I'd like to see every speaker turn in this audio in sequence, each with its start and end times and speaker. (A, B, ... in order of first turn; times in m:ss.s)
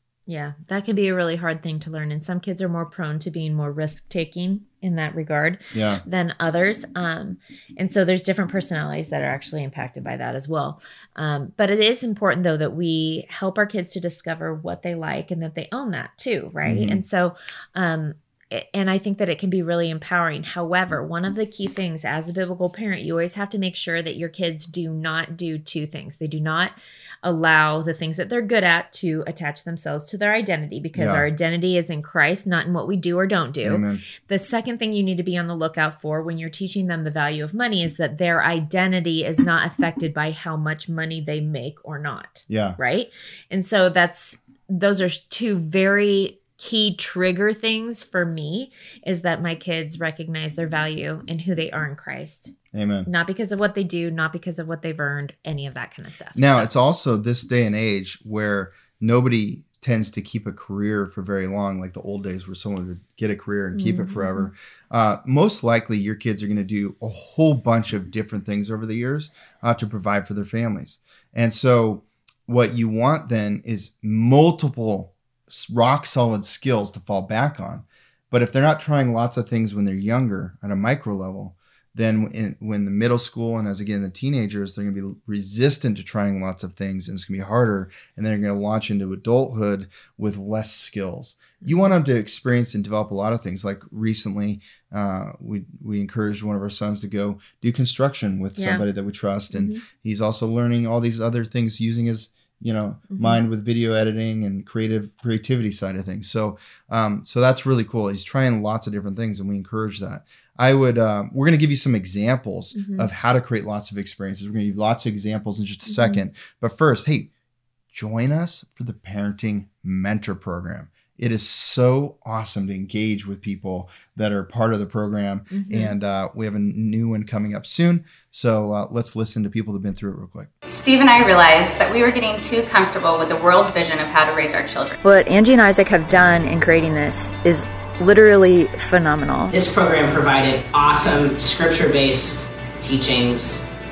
0:00.3-0:52.6 A
0:05.7-0:06.0 B
0:16.6-0:17.0 B
0:31.0-0:31.3 B
0:33.6-0:34.0 B
0:42.5-0:42.8 B
0:52.7-0:53.1 B
0:53.1-0:56.7 A
0:56.4-1:57.3 B
1:03.8-1:04.5 A
1:31.6-1:31.9 A
1:38.6-1:38.8 A
1:39.5-1:39.8 A
1:43.1-1:43.4 A
1:52.7-1:53.1 A
1:55.9-1:56.2 A
1:57.9-2:10.5 B
2:05.5-2:06.0 A
2:10.7-2:15.0 C
2:15.0-2:19.5 D
2:19.5-2:23.6 E